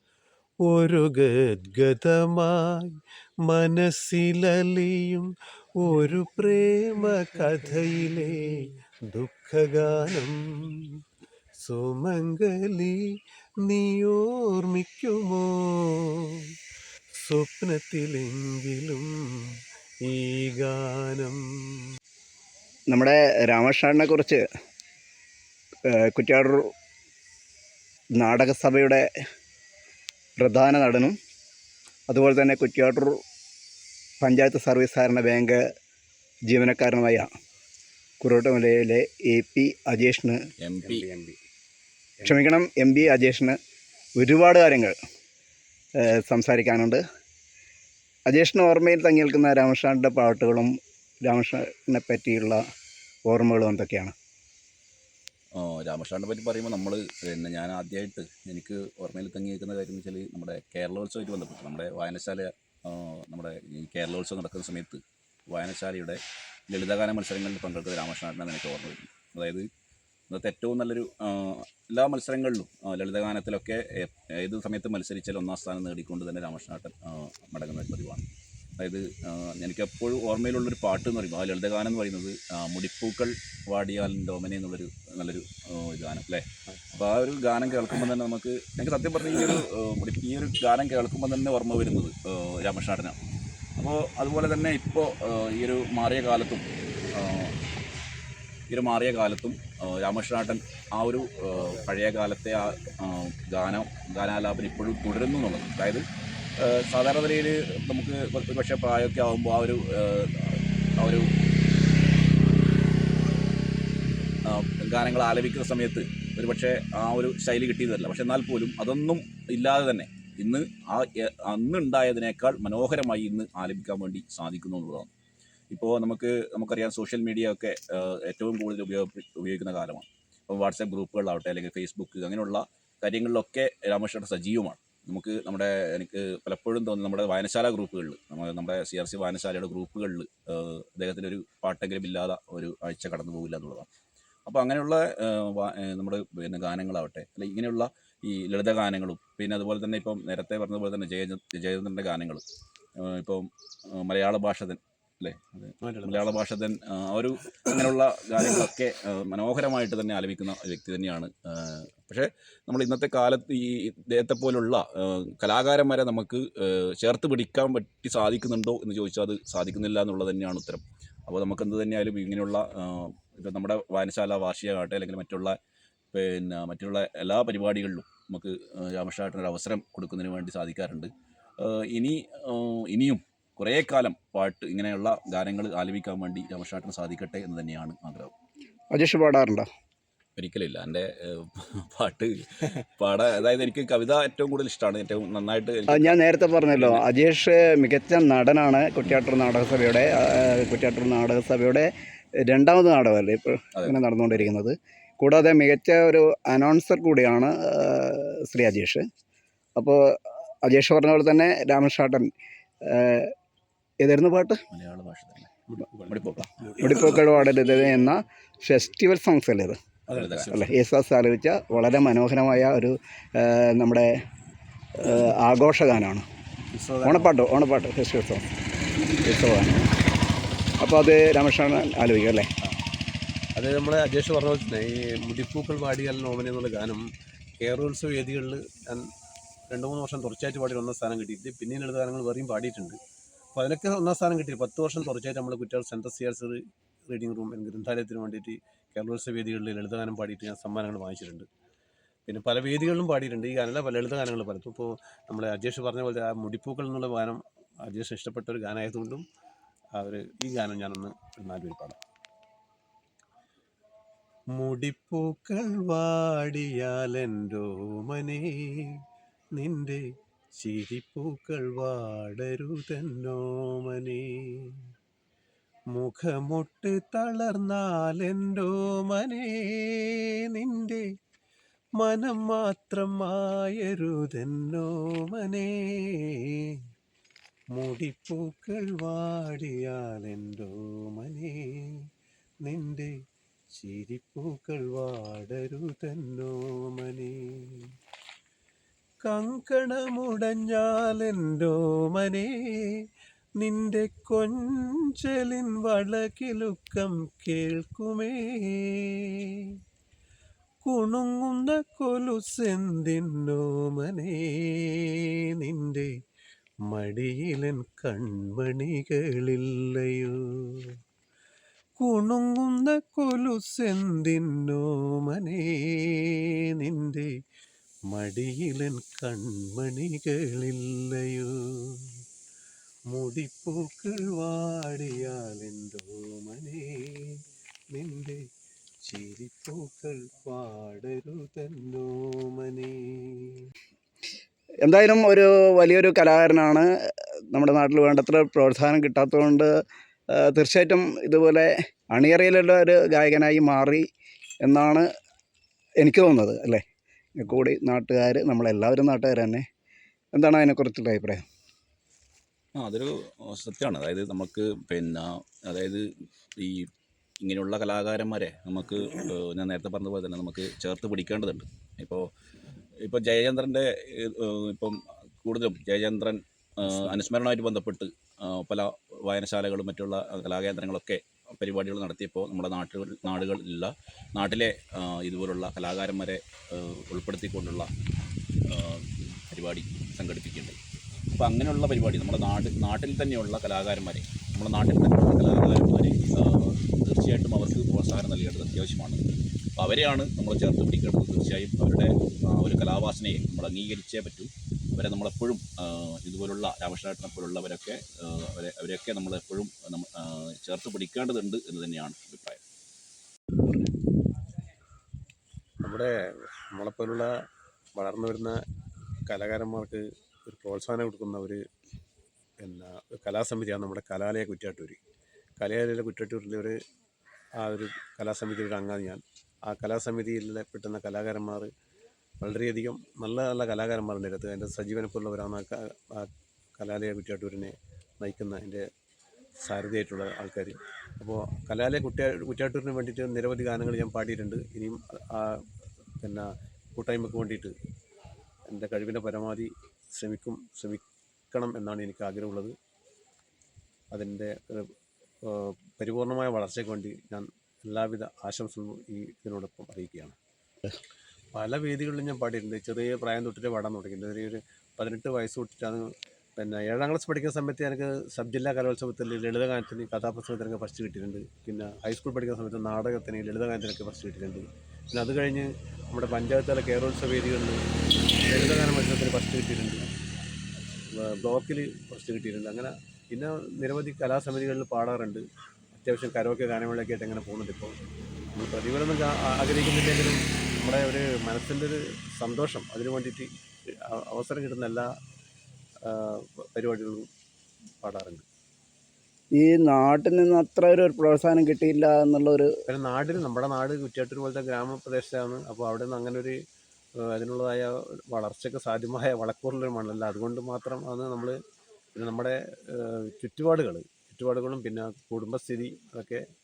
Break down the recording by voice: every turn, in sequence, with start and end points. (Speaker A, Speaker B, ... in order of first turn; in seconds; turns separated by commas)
Speaker A: 0.7-10.8, Speaker A: 11.6-13.0, Speaker A: 13.6-16.3, Speaker A: 17.1-21.8, Speaker B: 22.9-24.4, Speaker B: 25.9-26.7, Speaker B: 28.2-29.1, Speaker B: 30.4-31.2, Speaker B: 32.1-33.2, Speaker B: 34.2-35.6, Speaker B: 36.5-37.3, Speaker B: 38.2-40.4, Speaker C: 40.6-41.1, Speaker A: 40.8-41.4, Speaker B: 42.2-43.6, Speaker B: 44.2-45.0, Speaker B: 46.0-47.0, Speaker B: 48.3-50.7, Speaker B: 51.3-52.6, Speaker B: 53.3-54.1, Speaker C: 55.6-69.7, Speaker C: 70.3-78.3, Speaker C: 78.8-93.2, Speaker C: 93.8-97.5, Speaker C: 98.7-106.0, Speaker C: 106.6-111.3, Speaker C: 114.5-125.1, Speaker C: 125.7-143.9, Speaker C: 144.5-152.4, Speaker C: 153.0-175.5, Speaker A: 155.8-156.4, Speaker C: 176.1-188.3, Speaker B: 188.9-189.7, Speaker C: 190.4-196.2, Speaker B: 195.9-201.9, Speaker C: 196.7-197.1, Speaker B: 202.5-209.0, Speaker C: 203.8-204.5, Speaker B: 209.8-210.0, Speaker B: 210.6-212.3, Speaker B: 212.9-213.3, Speaker B: 214.0-214.6, Speaker C: 214.7-215.5, Speaker A: 215.7-217.3, Speaker C: 216.1-216.9, Speaker B: 216.8-219.8, Speaker A: 220.1-220.7, Speaker C: 220.2-220.5, Speaker B: 220.5-224.1, Speaker B: 225.0-226.2, Speaker A: 226.7-227.3, Speaker B: 227.0-228.5, Speaker B: 229.2-229.9, Speaker B: 230.8-232.5, Speaker A: 233.6-237.1, Speaker A: 237.6-239.1, Speaker A: 239.7-243.0, Speaker A: 243.6-251.5, Speaker A: 252.3-259.2, Speaker A: 260.0-262.0, Speaker A: 264.6-269.0, Speaker A: 269.6-270.1, Speaker A: 270.6-274.7, Speaker A: 275.9-281.0, Speaker A: 282.0-286.4, Speaker A: 287.8-291.8, Speaker A: 292.6-293.1, Speaker A: 293.7-297.8, Speaker A: 299.2-302.5, Speaker A: 303.6-308.9, Speaker A: 310.9-314.7, Speaker A: 315.6-316.1, Speaker A: 316.9-320.4, Speaker A: 322.0-327.3, Speaker A: 328.1-331.8, Speaker A: 333.1-337.4, Speaker A: 337.9-338.4, Speaker A: 339.1-343.7, Speaker B: 344.8-346.9, Speaker B: 347.5-349.7, Speaker B: 350.4-354.1, Speaker B: 354.6-355.1, Speaker B: 356.0-356.8, Speaker B: 357.4-359.6, Speaker B: 360.4-361.4, Speaker C: 362.8-366.9, Speaker C: 367.4-372.3, Speaker C: 373.0-387.9, Speaker C: 388.6-390.8, Speaker C: 391.3-399.2, Speaker C: 399.8-412.6, Speaker A: 415.8-417.3, Speaker A: 418.0-418.6, Speaker A: 419.3-421.6, Speaker A: 422.6-425.0, Speaker A: 425.6-426.8, Speaker A: 427.6-431.7, Speaker A: 432.4-438.9, Speaker A: 439.6-445.7, Speaker A: 446.2-447.8, Speaker A: 448.7-452.7, Speaker A: 454.1-460.4, Speaker A: 461.5-477.8, Speaker A: 478.5-480.1, Speaker A: 481.0-487.9, Speaker A: 488.5-495.1, Speaker A: 496.1-497.3, Speaker A: 498.0-498.4, Speaker B: 499.6-502.7, Speaker A: 502.9-506.6, Speaker A: 507.2-511.6, Speaker A: 512.1-516.4